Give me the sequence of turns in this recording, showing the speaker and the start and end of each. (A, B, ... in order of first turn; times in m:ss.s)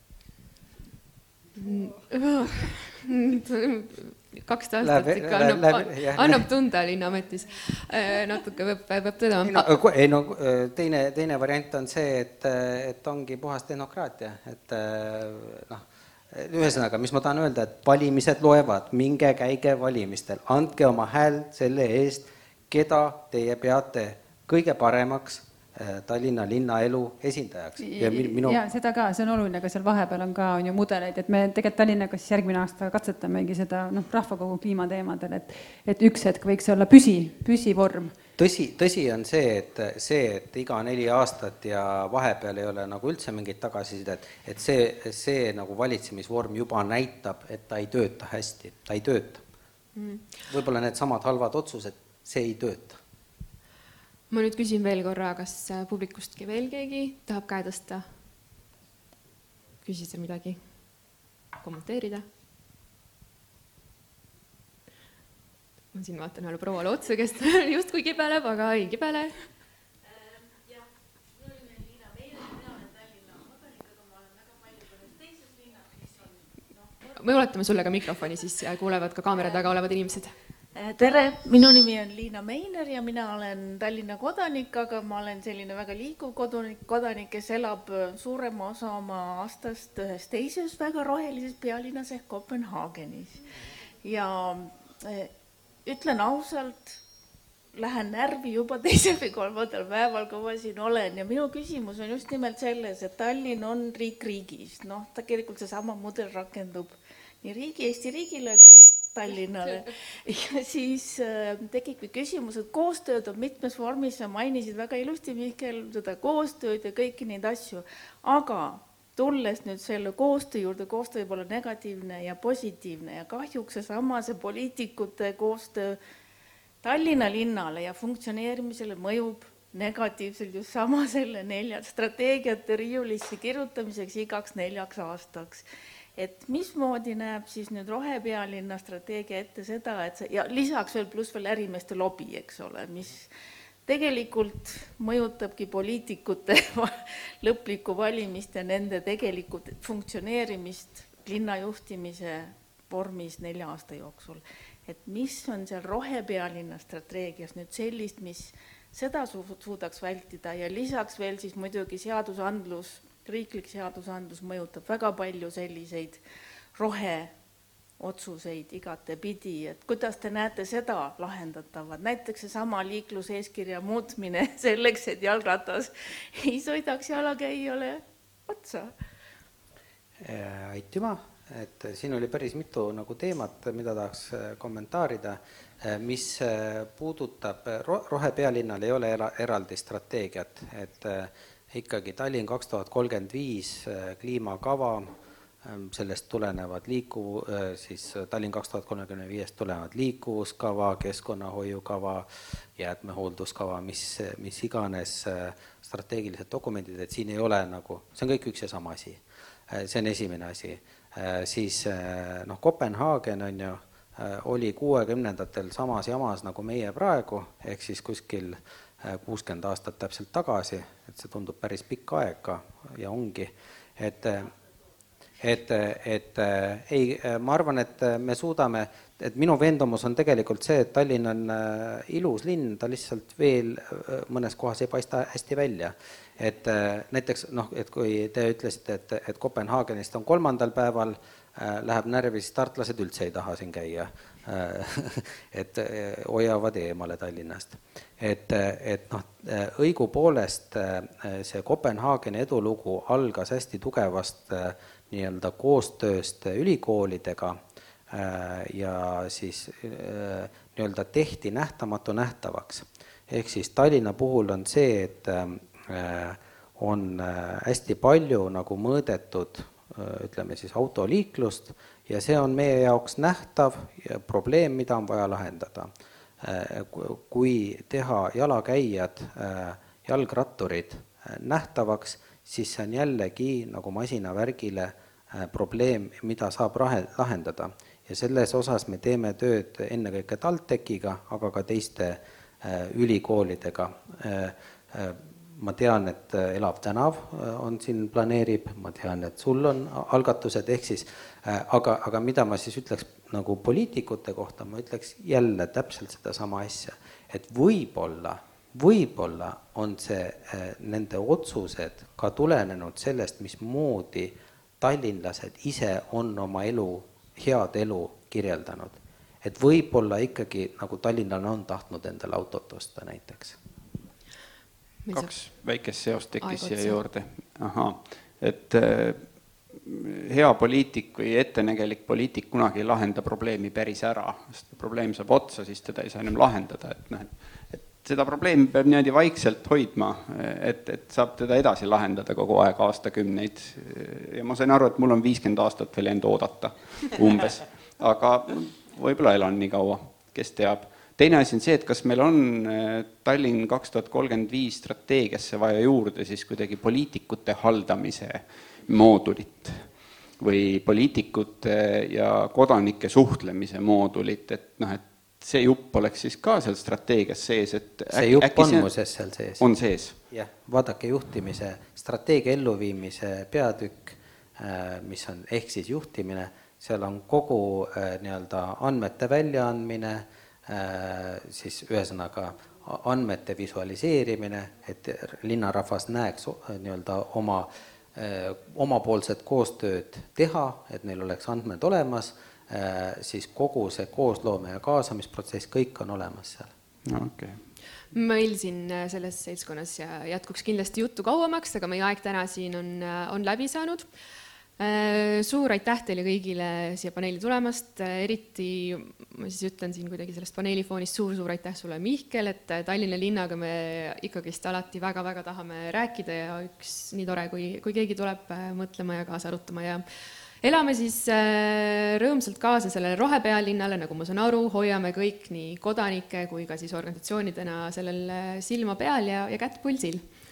0:01.6-0:09.7 A
0:04.8-0:06.4 B
0:09.4-0:28.6 B
0:27.8-0:38.1 C
0:38.4-0:49.4 B
0:49.9-0:50.2 A
0:50.5-0:53.0 B
0:54.3-0:58.0 A
0:59.8-1:00.6 A
1:01.6-1:02.2 A
1:05.9-1:09.5 A
1:17.1-1:20.3 A
1:20.8-1:33.5 D
1:34.0-1:35.3 D
1:35.8-1:37.0 D
1:37.7-2:06.0 D
2:06.8-2:15.6 D
2:16.2-2:23.3 D
2:23.8-2:46.2 D
2:46.8-2:47.3 D
2:48.0-2:58.9 D
3:00.2-3:15.1 B
3:15.6-3:44.5 B
3:45.4-4:17.6 B
4:18.1-5:23.6 B
5:25.0-5:25.3 A
5:25.1-5:59.9 E
5:26.4-5:27.0 A
6:00.4-6:08.9 E
6:08.1-6:09.6 B
6:09.6-6:10.2 E
6:10.3-6:36.7 B
6:37.0-6:37.6 E
6:38.1-6:44.1 A
6:44.8-7:00.0 A
7:00.6-7:10.2 A